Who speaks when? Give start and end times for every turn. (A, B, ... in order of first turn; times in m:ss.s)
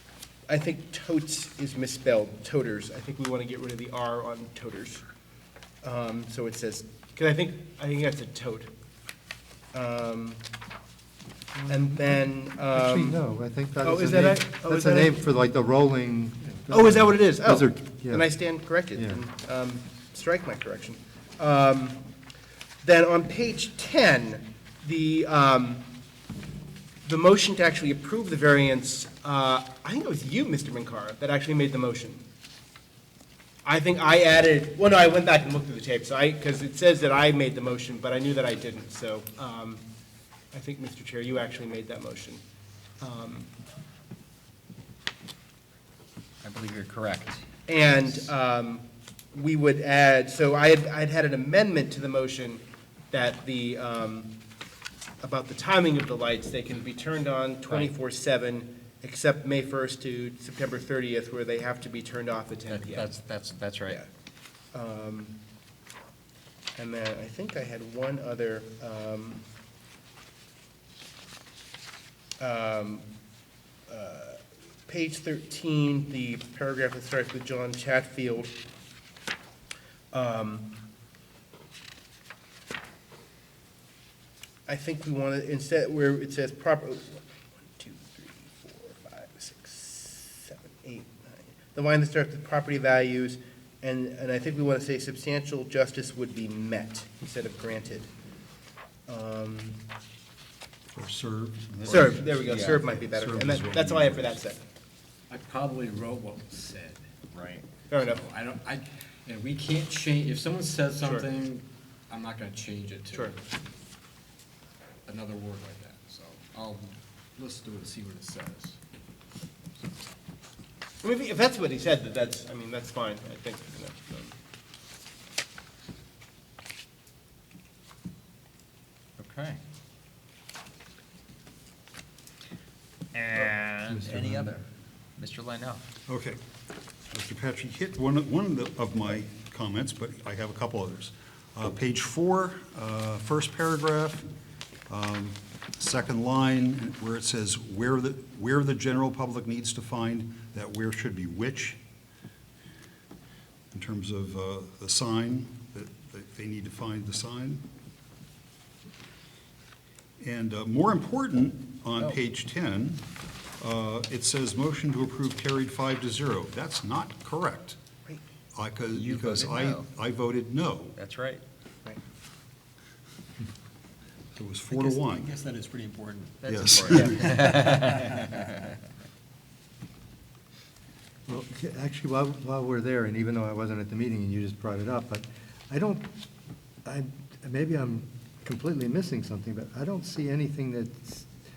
0:00.5-0:05.0 A
0:05.8-0:08.7 A
0:09.7-0:10.4 A
0:11.6-0:12.2 B
0:11.7-0:13.2 A
0:12.7-0:18.4 B
0:13.8-0:15.2 A
0:16.7-0:22.0 A
0:19.0-0:19.2 B
0:22.8-0:25.8 A
0:27.0-0:32.2 A
0:33.6-0:39.8 A
0:40.5-0:42.4 A
0:43.0-0:43.5 A
0:46.4-0:47.4 C
0:47.7-0:54.3 A
0:55.2-1:03.1 A
1:02.7-1:04.0 C
1:04.7-1:05.4 A
1:06.8-1:09.4 A
1:12.4-1:13.0 A
1:13.9-1:18.5 A
1:20.1-1:20.7 A
1:24.7-1:38.1 A
1:39.1-1:39.8 A
1:41.0-1:44.4 D
1:41.9-1:42.9 C
1:41.9-1:44.6 A
1:45.3-1:53.3 E
1:47.9-1:48.2 A
1:51.0-1:51.3 A
1:55.1-1:58.8 E
2:01.0-2:04.3 A
2:09.2-2:09.6 C
2:13.1-2:14.6 C
2:13.9-2:14.6 B
2:15.2-2:15.8 C
2:16.1-2:16.4 D
2:17.1-2:24.3 D
2:24.9-2:31.8 D
2:33.7-2:37.6 D
2:40.2-2:43.0 D
2:43.6-2:47.8 D
2:48.6-2:51.0 D
2:48.9-2:49.9 C
2:51.0-2:51.4 C
2:54.4-2:55.3 D
2:54.7-2:58.4 F
2:56.4-2:58.1 C
2:56.5-2:57.6 D
3:01.3-3:06.1 B
3:06.8-3:11.3 B